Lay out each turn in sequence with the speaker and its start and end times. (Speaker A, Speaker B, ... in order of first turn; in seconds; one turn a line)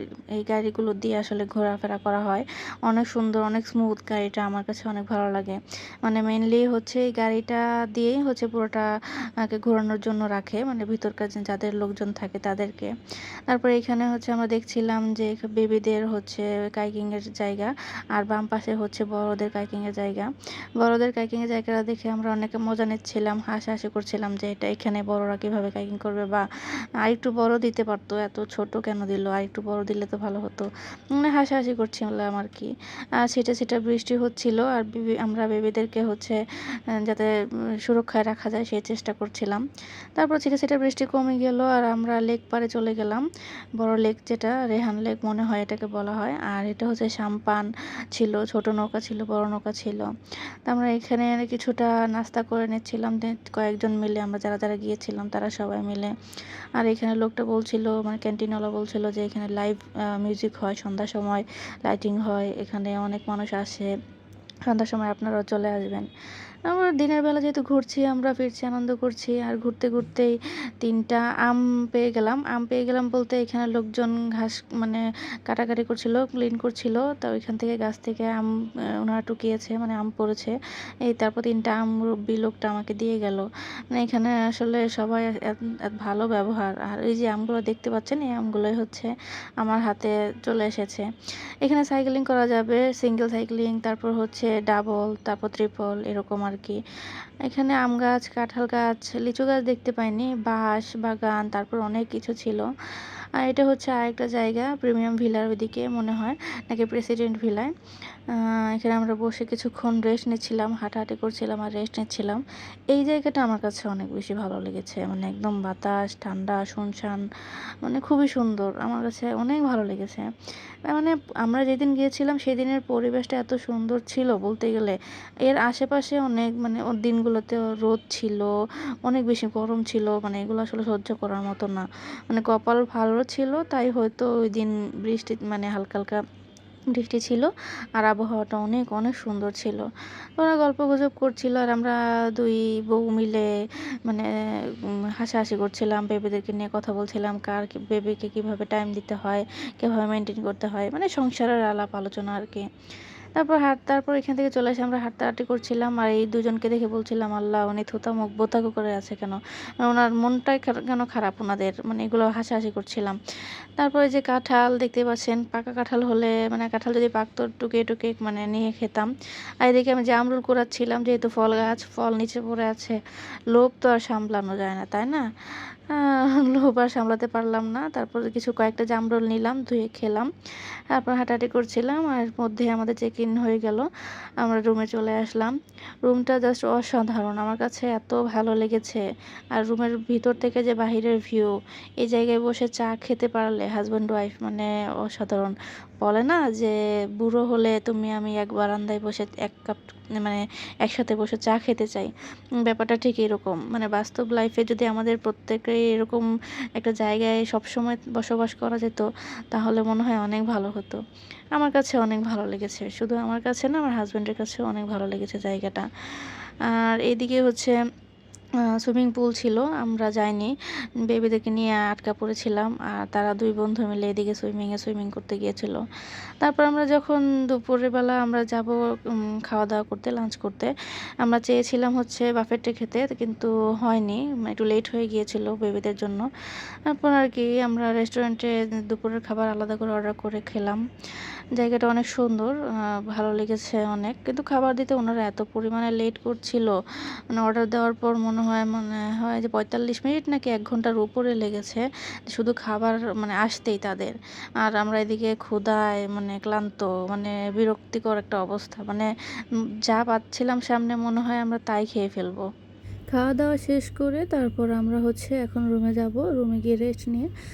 Speaker A: 0.3-8.9
Speaker A: 9.4-12.9
Speaker A: 13.5-20.3
Speaker A: 20.8-26.4
Speaker A: 27.0-32.7
Speaker A: 33.2-36.4
Speaker A: 37.0-37.3
Speaker A: 37.8-39.6
Speaker A: 40.1-43.2
Speaker A: 43.8-50.1
Speaker A: 50.6-56.1
Speaker A: 56.8-63.9
Speaker A: 64.7-66.1
Speaker A: 66.7-78.5
Speaker A: 79.0-80.5
Speaker A: 81.1-91.1
Speaker A: 91.6-96.8
Speaker A: 97.4-102.7
Speaker A: 103.4-107.7
Speaker A: 108.3-117.2
Speaker A: 117.8-120.2
Speaker A: 120.9-128.5
Speaker A: 129.1-136.2
Speaker A: 136.9-139.9
Speaker A: 140.4-143.5
Speaker A: 145.2-152.6
Speaker A: 153.3-163.2
Speaker A: 163.8-169.1
Speaker A: 169.6-172.9
Speaker A: 173.5-175.2
Speaker A: 175.9-180.3
Speaker A: 180.9-183.9
Speaker A: 184.4-189.0
Speaker A: 189.5-202.1
Speaker A: 202.6-206.2
Speaker A: 206.8-211.0
Speaker A: 211.6-215.8
Speaker A: 216.7-217.8
Speaker A: 218.8-220.5
Speaker A: 221.1-225.8
Speaker A: 226.4-228.7
Speaker A: 229.5-230.7
Speaker A: 231.2-236.2
Speaker A: 236.9-240.8
Speaker A: 241.6-242.5
Speaker A: 243.1-246.7
Speaker A: 247.3-259.1
Speaker A: 259.9-262.4
Speaker A: 263.1-267.3